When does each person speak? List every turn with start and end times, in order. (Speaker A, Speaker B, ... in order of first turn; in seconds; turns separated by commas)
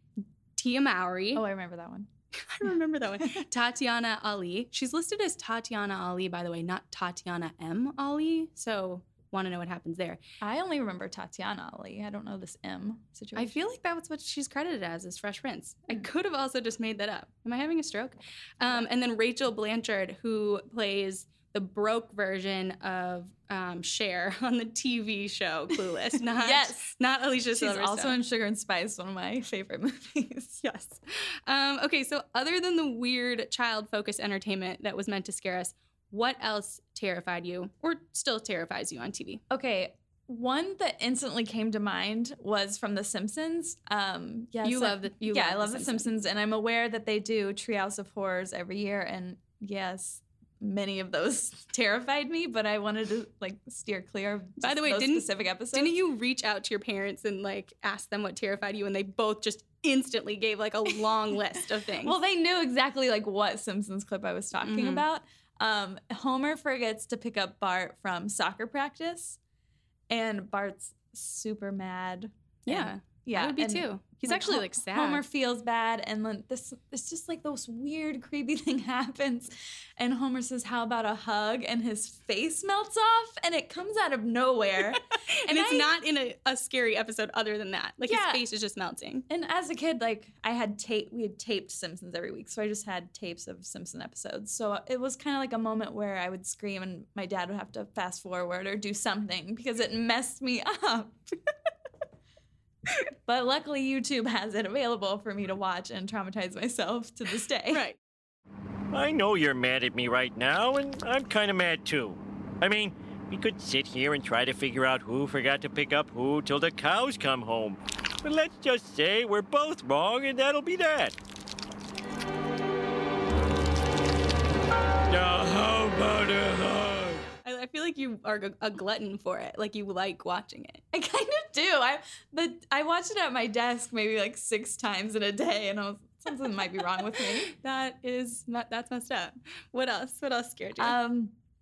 Speaker A: 0.6-1.4, Speaker B: 1.3-2.1, Speaker A: 2.4-10.2, Speaker B: 10.4-13.6, Speaker A: 13.3-28.2, Speaker B: 26.3-26.9, Speaker B: 27.5-30.6, Speaker A: 30.6-39.4, Speaker B: 39.5-56.0, Speaker A: 44.6-46.1, Speaker A: 54.6-62.2, Speaker B: 62.0-69.4, Speaker A: 64.6-65.0, Speaker B: 70.1-85.9, Speaker A: 72.7-75.2, Speaker A: 85.5-89.3, Speaker B: 88.0-88.4, Speaker B: 89.3-101.2, Speaker B: 103.3-107.9, Speaker A: 107.7-108.0, Speaker C: 108.9-121.2, Speaker C: 125.1-127.2, Speaker A: 127.4-130.8, Speaker B: 130.9-137.5, Speaker A: 137.5-141.0, Speaker B: 140.8-141.3